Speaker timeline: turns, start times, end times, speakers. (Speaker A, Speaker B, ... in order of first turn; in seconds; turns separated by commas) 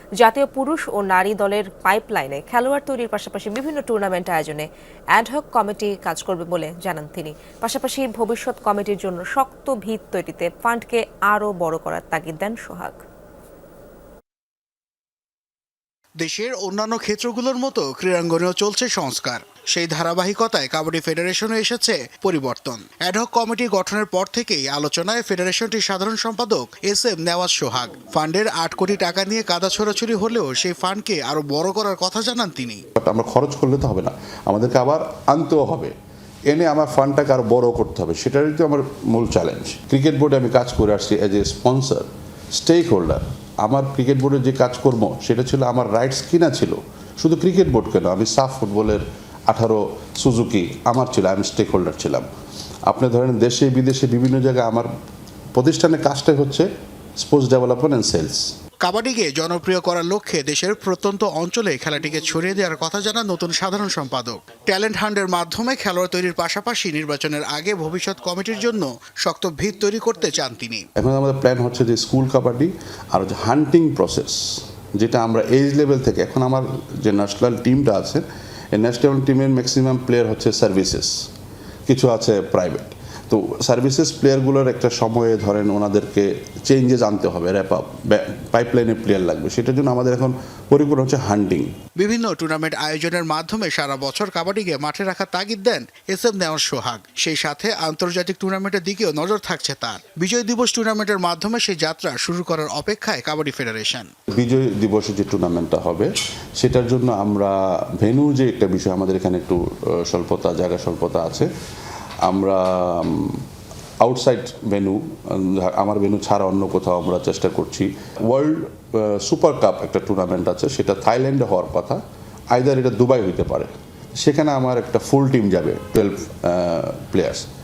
Speaker A: 0.2-13.0, Speaker B: 16.2-32.8, Speaker C: 32.9-35.9, Speaker C: 36.5-52.3, Speaker C: 52.9-54.9, Speaker C: 55.5-56.7, Speaker C: 57.2-58.4, Speaker B: 58.8-70.8, Speaker C: 71.0-81.1, Speaker C: 81.9-91.8, Speaker B: 92.0-104.1, Speaker C: 104.3-111.5, Speaker C: 112.2-113.4, Speaker C: 114.0-122.0, Speaker C: 122.5-127.5